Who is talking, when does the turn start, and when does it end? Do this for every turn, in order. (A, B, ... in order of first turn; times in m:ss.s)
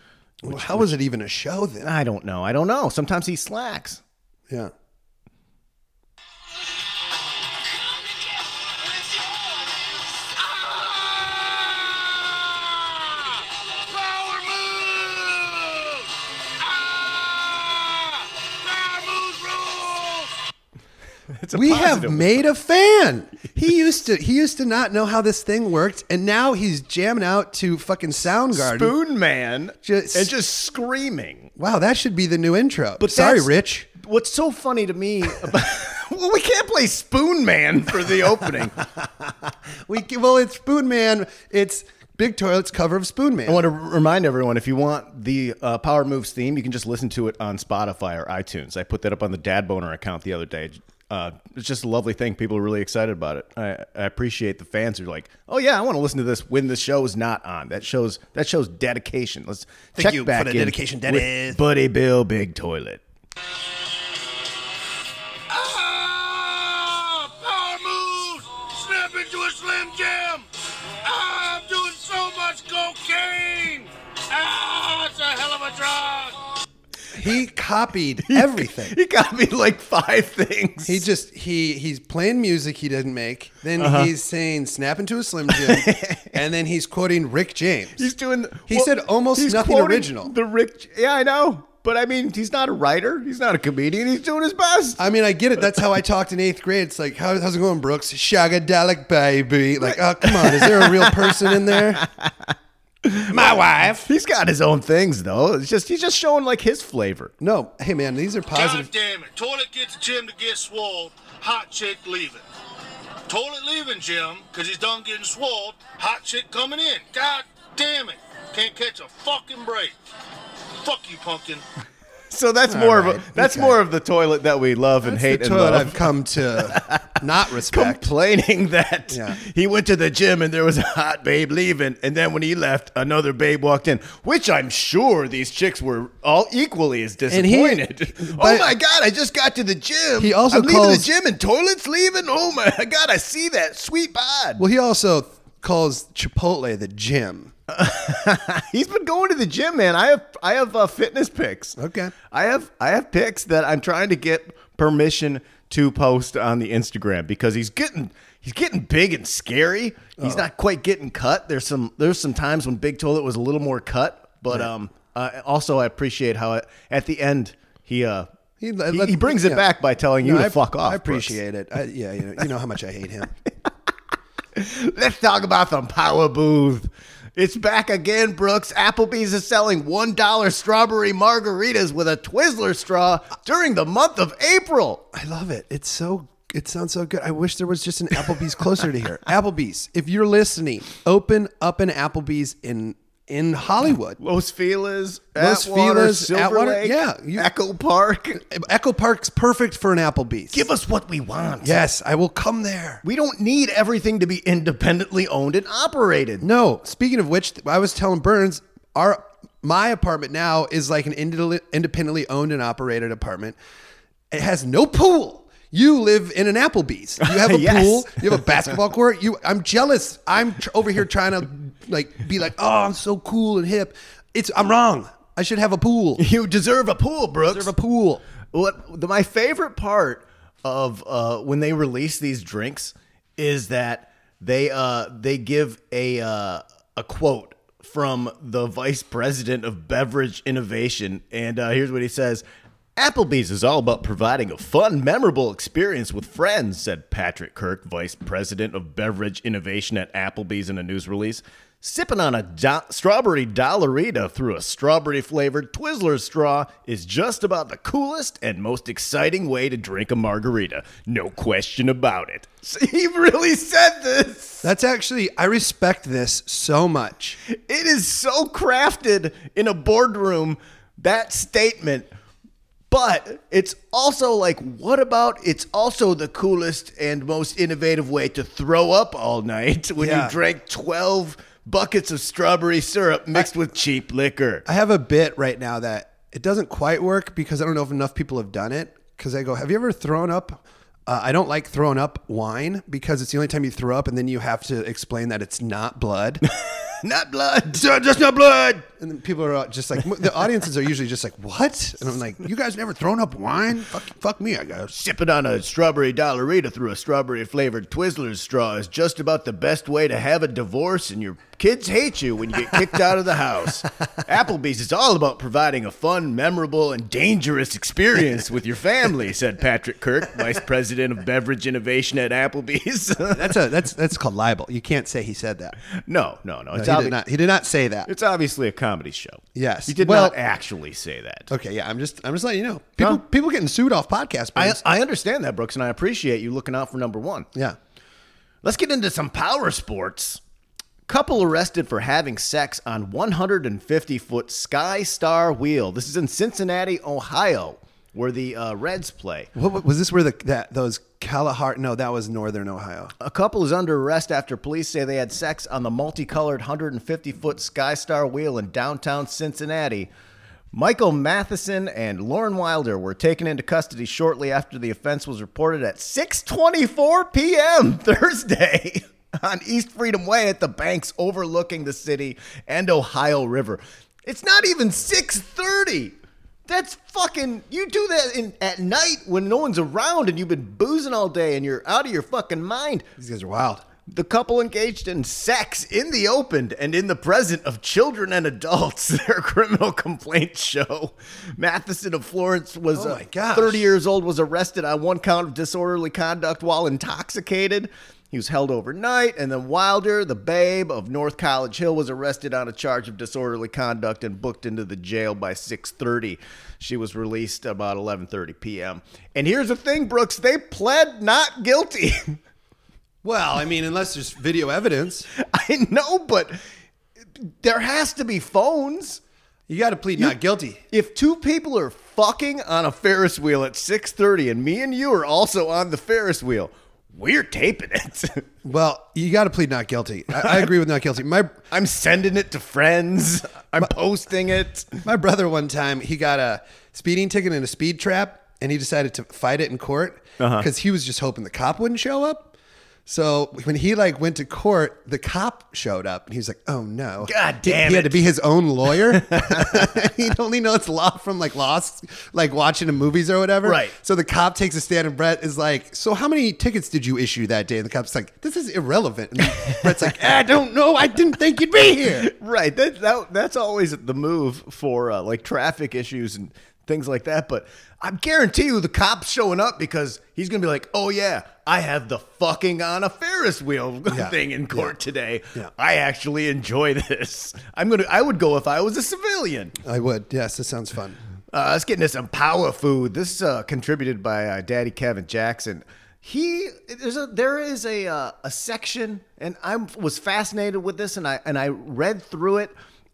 0:00.4-0:01.9 A
0:00.4-0:00.9 B
0:01.8-0:04.0 B
0:09.0-0:09.2 C
0:10.4-0:20.3 C
0:21.4-0:22.4 B
0:21.5-0:29.0 A
0:28.5-0:31.5 B
0:29.8-0:30.3 A
0:31.6-0:33.9 A
0:33.0-0:38.8 B
0:39.9-0:43.6 A
0:43.5-1:03.0 B
1:00.0-1:01.6 A
1:05.5-1:10.5 C
1:11.0-1:16.4 C
1:17.1-1:19.0 A
1:18.3-1:21.1 B
1:20.9-1:28.1 A
1:23.8-1:24.1 B
1:25.5-1:26.4 B
1:28.0-1:35.0 B
1:28.7-1:30.3 A
1:35.0-1:42.0 A
1:39.8-1:42.5 B
1:43.0-1:47.3 B
1:43.3-1:44.1 A
1:47.4-1:48.9 A
1:48.5-1:52.4 C
1:53.3-2:00.0 C
2:00.8-2:01.6 C
2:02.3-2:24.6 B
2:02.7-2:03.8 A
2:05.0-2:08.1 A
2:09.1-2:09.4 A
2:17.3-2:18.7 A
2:20.2-2:21.1 A
2:24.6-2:27.5 A
2:27.7-2:31.8 B
2:31.8-2:32.1 A
2:32.3-2:48.3 B
2:40.2-2:40.4 A
2:48.6-2:49.6 A
2:48.9-2:51.4 B
2:50.2-2:53.3 A
2:54.6-3:05.0 B
3:05.1-3:14.2 A
3:14.2-3:18.4 B
3:15.4-3:17.5 A
3:18.4-3:20.6 A
3:20.5-3:21.8 B
3:21.6-3:23.0 A
3:23.0-3:26.4 B
3:26.4-3:33.6 A
3:34.3-3:46.2 A
3:37.2-3:38.6 B
3:46.2-3:47.7 B
3:47.5-3:48.2 A
3:48.5-4:02.4 B
4:03.0-4:24.7 B
4:24.6-4:27.4 A
4:27.5-4:32.1 B
4:32.9-4:44.6 B
4:40.0-4:40.4 A
4:44.7-4:56.4 A
4:56.5-4:57.8 B
4:57.7-5:04.9 A
5:04.9-5:23.6 B
5:23.3-5:25.8 A
5:26.0-5:27.2 B
5:26.7-5:28.1 A
5:28.1-5:31.5 B
5:29.6-5:30.4 A
5:31.5-5:34.8 A
5:34.6-5:37.5 B
5:38.6-5:40.4 B
5:41.1-5:49.5 B
5:49.6-5:53.1 A
5:53.2-6:00.1 B
6:00.7-6:16.2 B
6:16.7-6:23.1 B
6:23.2-6:23.8 A
6:24.1-6:52.4 B
6:32.9-6:33.9 A
6:53.2-6:55.3 A
6:55.3-6:56.6 B
6:57.4-6:59.2 B
6:59.7-7:00.8 A
7:00.9-7:08.5 B
7:08.6-7:11.6 A
7:10.4-7:10.7 B
7:11.7-7:15.0 B
7:15.0-7:22.5 A
7:20.4-7:20.7 B
7:23.1-7:42.3 A
7:27.2-7:28.2 B
7:29.1-7:30.0 B
7:33.6-7:33.9 B
7:39.6-7:39.9 B
7:42.0-7:59.8 B
7:54.1-7:54.9 A
7:59.8-8:01.2 A
8:01.5-8:12.7 B